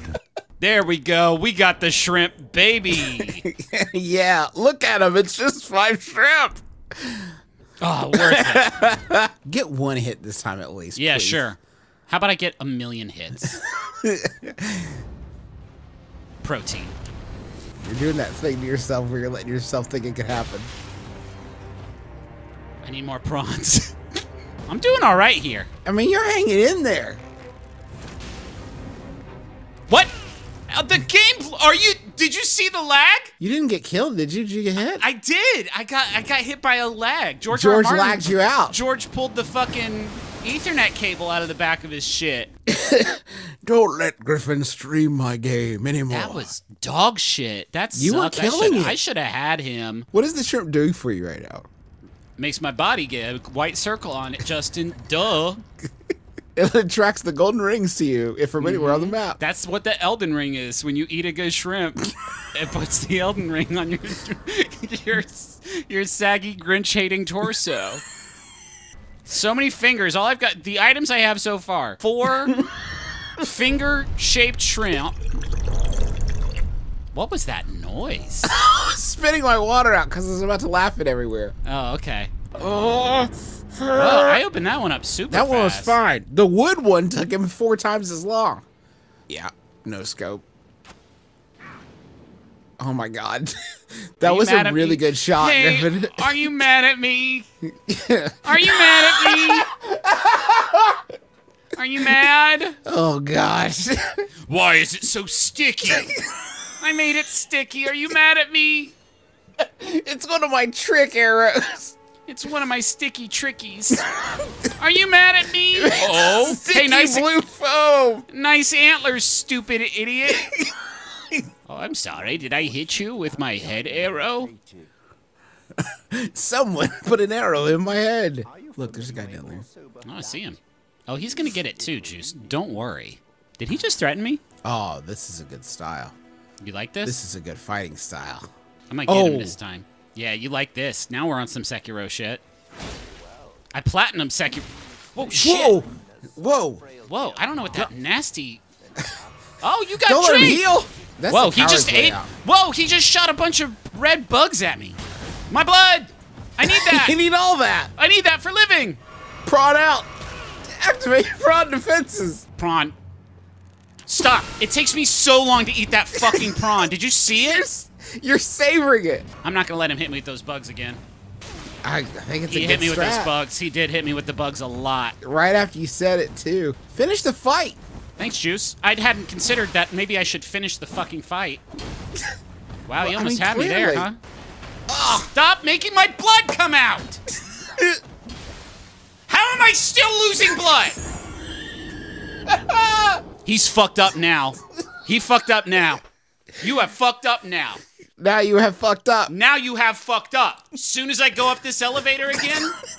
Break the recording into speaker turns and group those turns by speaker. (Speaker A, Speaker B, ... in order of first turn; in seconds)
Speaker A: 0.6-3.5, 7.8-8.8, 11.0-13.6, 16.4-17.0, 22.8-24.0, 24.7-25.7, 30.7-33.3, 34.8-42.5, 46.1-50.1, 52.4-55.6, 58.6-68.0, 69.2-72.6, 73.4-75.2, 77.1-78.5, 81.7-82.3, 83.9-86.0, 94.2-97.5, 98.4-99.7, 101.8-102.8, 104.5-106.2, 106.8-109.0, 112.3-114.1, 114.8-117.3, 118.3-120.5, 121.7-124.5, 130.0-134.4, 136.6-137.2, 138.9-142.4, 143.7-145.8, 147.0-148.6, 149.6-150.7, 151.3-157.2, 158.0-159.0, 162.6-163.0, 164.1-167.7, 169.4-171.0, 172.5-175.2, 178.2-181.6, 182.9-184.2, 185.1-187.2, 189.3-191.0, 193.4-196.0, 196.6-197.8, 199.3-202.8
Speaker B: 3.0-7.3, 8.1-11.4, 13.7-15.0, 17.8-20.7, 25.9-27.2, 33.4-35.0, 37.5-38.8, 42.7-46.5, 48.0-49.0, 50.1-51.7, 56.6-59.4, 78.5-81.6, 82.5-84.4, 85.3-88.7, 89.3-90.5, 92.8-96.5, 97.8-101.1, 102.8-104.3, 105.9-106.3, 109.6-112.0, 115.7-118.3, 120.3-120.8, 125.8-129.7, 134.6-136.2, 137.1-138.5, 139.1-139.6, 145.2-146.9, 150.1-152.3, 156.6-157.9, 159.5-160.1, 160.6-162.4, 166.2-166.7, 167.3-169.3, 171.8-173.3, 175.2-177.8, 183.0-184.1, 184.9-185.3, 187.7-188.0, 192.5-193.2, 198.2-199.3